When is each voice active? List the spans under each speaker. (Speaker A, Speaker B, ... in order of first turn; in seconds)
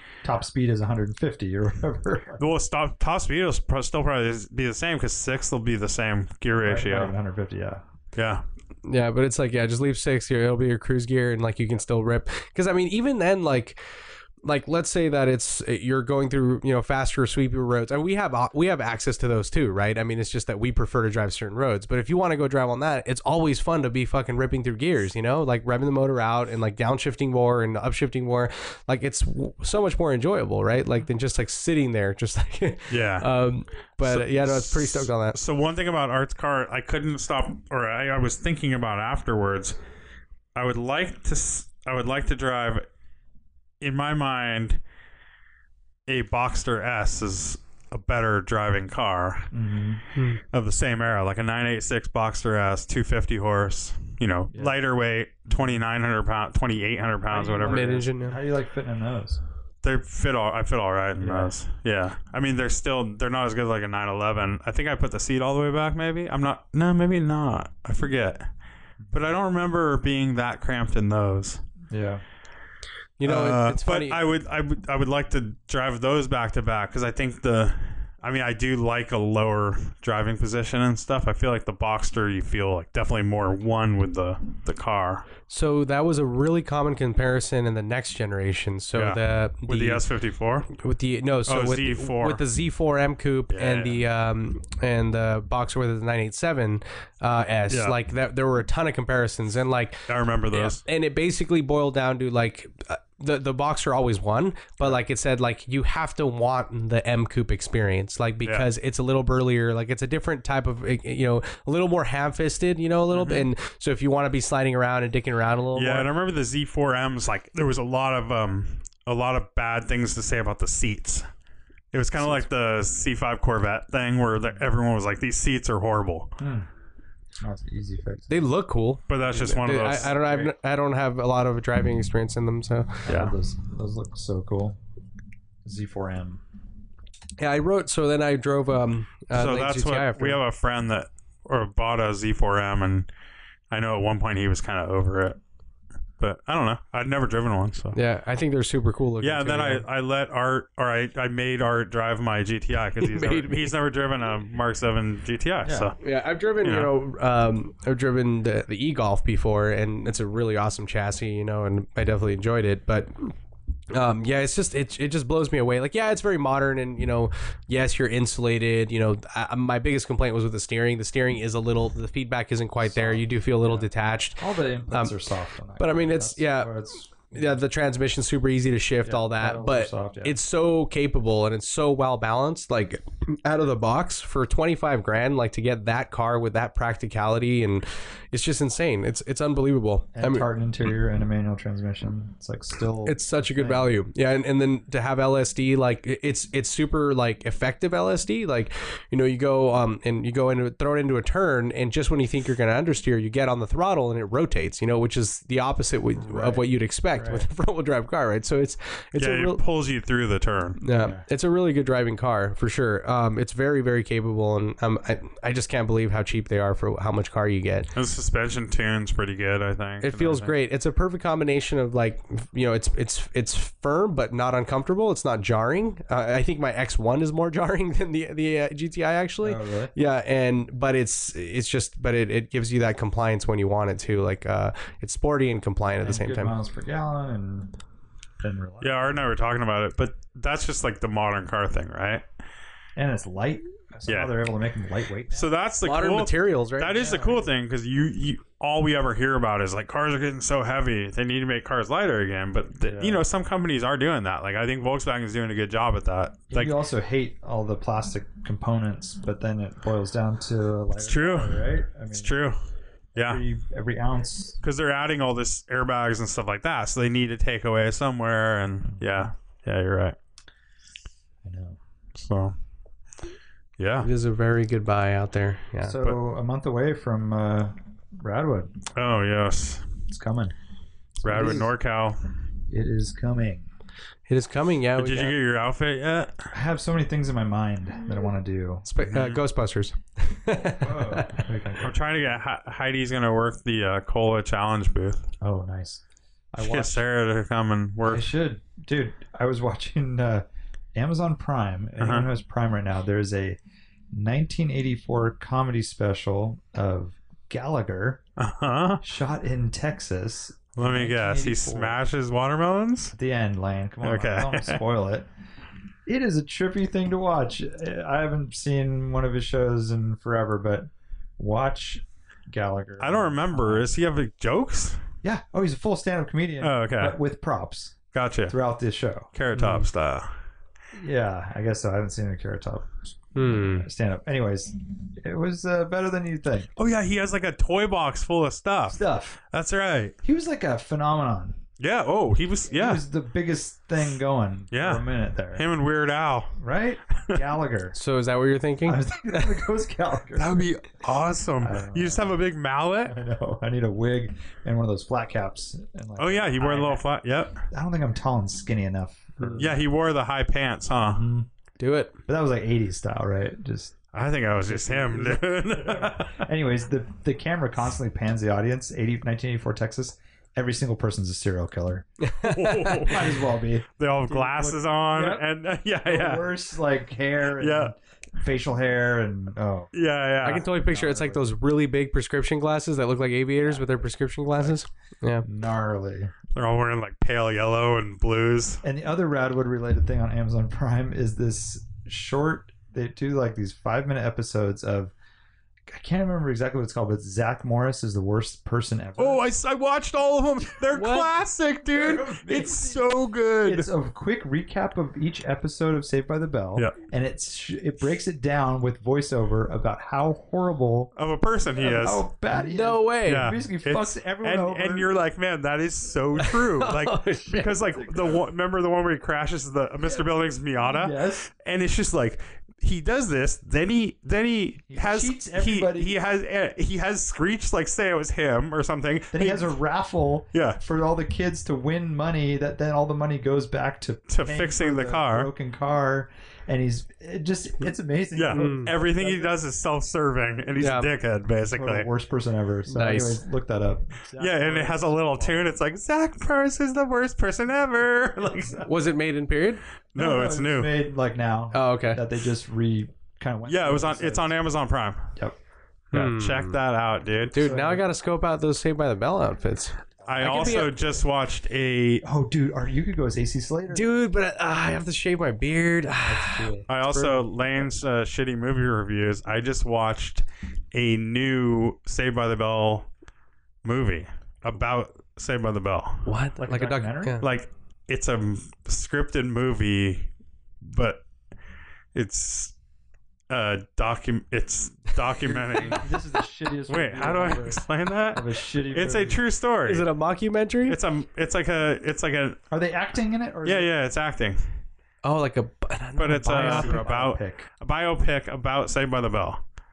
Speaker A: 0.2-2.4, 6.6-7.8, 49.5-50.0, 57.3-59.4, 61.2-61.5, 71.9-72.2, 126.4-126.7, 127.4-128.4, 133.0-134.8, 135.6-136.4, 155.6-155.9, 172.8-177.6, 179.0-180.4, 190.1-193.9, 206.2-207.4, 211.0-211.2, 229.4-229.9, 236.0-237.7, 238.4-239.1, 242.9-245.5, 246.9-247.4, 252.8-253.2, 256.5-262.4, 263.1-264.6, 268.8-269.3, 271.4-271.8, 275.8-278.7, 280.1-280.5, 281.2-281.7, 282.7-283.7, 286.5-288.9, 290.5-292.0, 295.4-297.0, 298.0-303.6, 304.1-308.2, 309.0-312.0, 313.1-315.3, 316.1-323.9, 325.2-328.0, 328.5-329.9, 330.9-336.7, 338.9-339.4, 340.2-341.6, 342.7-345.6, 346.6-347.9, 348.9-350.7, 351.6-352.4, 353.0-357.0, 357.7-359.8, 361.1-361.5, 362.3-363.9, 364.7-372.1, 372.9-375.4, 376.0-379.9, 380.7-381.5, 383.6-384.8, 385.4-386.3, 388.8-395.1, 395.9-399.4, 401.9-403.0, 403.6-411.1, 411.8-415.1, 417.5-418.4, 420.8-421.5, 424.9-426.1, 429.3-439.6, 441.7-445.7, 450.1-454.5, 457.6-458.0, 462.2-464.1, 466.2-466.9, 476.6-477.4, 485.4-489.4, 492.7-493.9, 496.4-497.7
Speaker B: 2.4-7.1, 8.1-8.4, 32.9-33.3, 34.0-39.8, 40.5-42.9, 43.8-44.8, 46.1-49.5, 50.4-58.0, 59.8-68.5, 69.1-71.6, 73.2-85.3, 88.9-90.7, 91.5-92.4, 93.5-94.0, 97.7-98.0, 100.1-100.8, 113.1-113.5, 115.7-121.3, 121.9-126.3, 129.1-130.5, 139.3-143.1, 143.7-145.4, 146.2-148.0, 149.2-156.0, 156.6-156.9, 209.2-210.8, 217.9-220.5, 238.8-242.2, 244.1-244.3, 245.3-256.8, 260.9-262.6, 263.1-263.4, 264.6-270.2, 272.1-272.6, 273.8-274.1, 278.9-279.8, 281.2-282.2, 284.9-286.5, 289.1-289.4, 291.8-295.2, 296.6-298.3, 302.0-302.2, 308.4-309.0, 310.8-313.1, 314.0-314.8, 323.0-325.0, 326.6-327.2, 328.1-328.5, 329.3-330.3, 336.8-340.1, 341.8-343.0, 344.7-346.6, 350.4-353.1, 356.2-357.6, 359.6-361.2, 364.1-366.4, 372.4-373.3, 374.0-376.5, 377.6-377.9, 379.9-380.7, 386.5-388.8, 399.2-403.9, 411.1-412.2, 413.2-429.8, 430.5-430.8, 434.3-435.5, 438.4-442.1, 444.4-448.9, 450.1-450.9, 453.7-455.3, 456.1-457.7, 460.2-462.2, 466.9-473.1, 473.8-476.3, 477.4-480.3, 480.8-481.2, 482.1-482.7, 483.5-486.1, 486.9-490.1, 490.9-492.6, 493.6-494.6, 496.2-499.6
Speaker C: 8.8-13.8, 14.4-35.4, 50.1-50.4, 57.6-58.4, 73.2-74.2, 85.5-90.0, 90.7-116.1, 122.2-122.4, 128.3-133.2, 137.4-140.4, 147.9-149.8, 153.0-153.7, 156.0-163.3, 163.9-190.4, 193.0-209.6, 210.8-217.9, 220.0-236.5, 245.8-247.1, 274.0-275.9, 281.3-281.6, 284.3-285.4, 288.9-291.4, 333.3-333.9, 347.9-349.7, 361.8-362.1, 372.2-373.1, 380.4-385.4, 400.9-401.4, 412.5-413.6, 416.3-417.8, 438.5-438.9, 440.8-441.1, 442.9-443.4, 448.8-449.8, 451.7-452.2, 456.1-456.8, 457.5-461.0, 463.9-467.5, 476.2-477.4, 489.9-491.0, 495.2-497.0